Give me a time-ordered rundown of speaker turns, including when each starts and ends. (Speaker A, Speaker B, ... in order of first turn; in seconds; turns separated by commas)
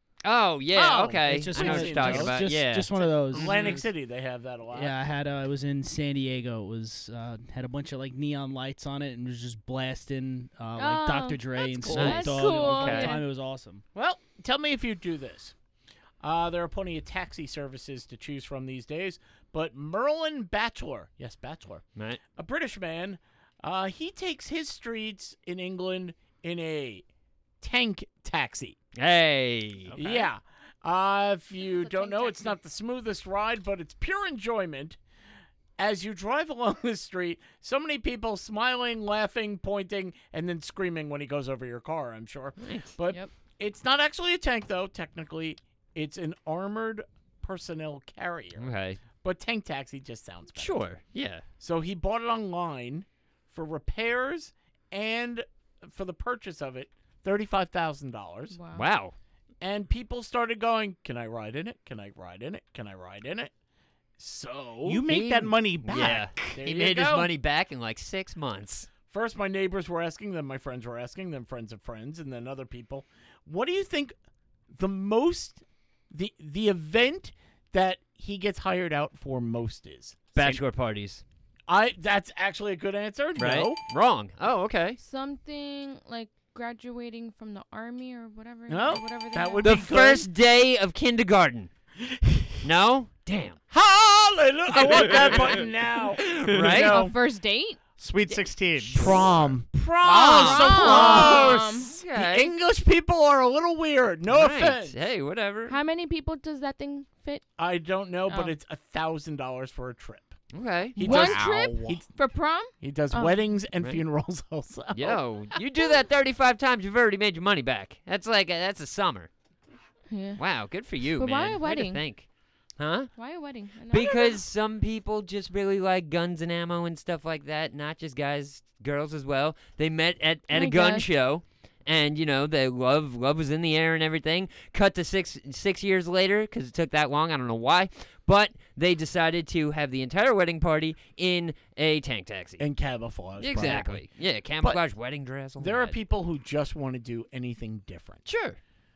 Speaker A: 0.2-3.5, Speaker B: 0.7-2.5, Speaker C: 1.2-3.9, Speaker B: 3.3-5.0, Speaker C: 4.7-13.8, Speaker D: 10.8-13.2, Speaker A: 11.8-13.1, Speaker B: 13.9-15.5, Speaker B: 16.2-21.8, Speaker A: 22.0-22.2, Speaker B: 22.4-27.1, Speaker B: 27.6-28.8, Speaker A: 29.0-29.9, Speaker E: 29.9-30.2, Speaker B: 30.0-35.0, Speaker D: 31.6-32.6, Speaker B: 35.8-48.7, Speaker A: 42.6-42.9, Speaker A: 48.6-49.0, Speaker B: 49.2-50.8, Speaker A: 50.5-51.4, Speaker B: 51.6-58.6, Speaker D: 58.5-58.9, Speaker A: 58.7-59.1, Speaker B: 59.6-63.5, Speaker B: 64.2-65.0, Speaker E: 64.8-66.3, Speaker A: 65.1-68.9, Speaker B: 66.5-67.3, Speaker B: 69.1-74.1, Speaker B: 74.7-80.6, Speaker A: 80.3-81.2, Speaker B: 81.7-83.8, Speaker A: 83.4-85.0, Speaker D: 85.0-89.8, Speaker B: 88.7-90.3, Speaker A: 89.6-91.7, Speaker A: 92.6-93.6, Speaker B: 93.7-97.2, Speaker A: 94.9-95.6, Speaker A: 96.3-97.0, Speaker D: 96.8-97.8, Speaker E: 98.0-99.5, Speaker B: 98.9-105.0, Speaker A: 100.0-102.5, Speaker D: 100.3-102.0, Speaker A: 104.3-105.8, Speaker D: 105.7-107.4, Speaker B: 107.6-110.4, Speaker D: 108.3-108.5, Speaker A: 110.5-111.3, Speaker B: 111.0-112.1, Speaker D: 111.0-113.5, Speaker E: 111.1-112.0, Speaker B: 112.8-115.2, Speaker A: 114.9-119.3, Speaker D: 120.1-120.4, Speaker A: 120.4-122.3, Speaker D: 121.2-122.0, Speaker A: 122.8-123.1, Speaker D: 123.2-124.4, Speaker A: 123.9-142.6, Speaker D: 130.5-131.1, Speaker B: 142.6-144.0, Speaker A: 143.4-145.9, Speaker B: 145.6-148.3, Speaker A: 148.3-148.6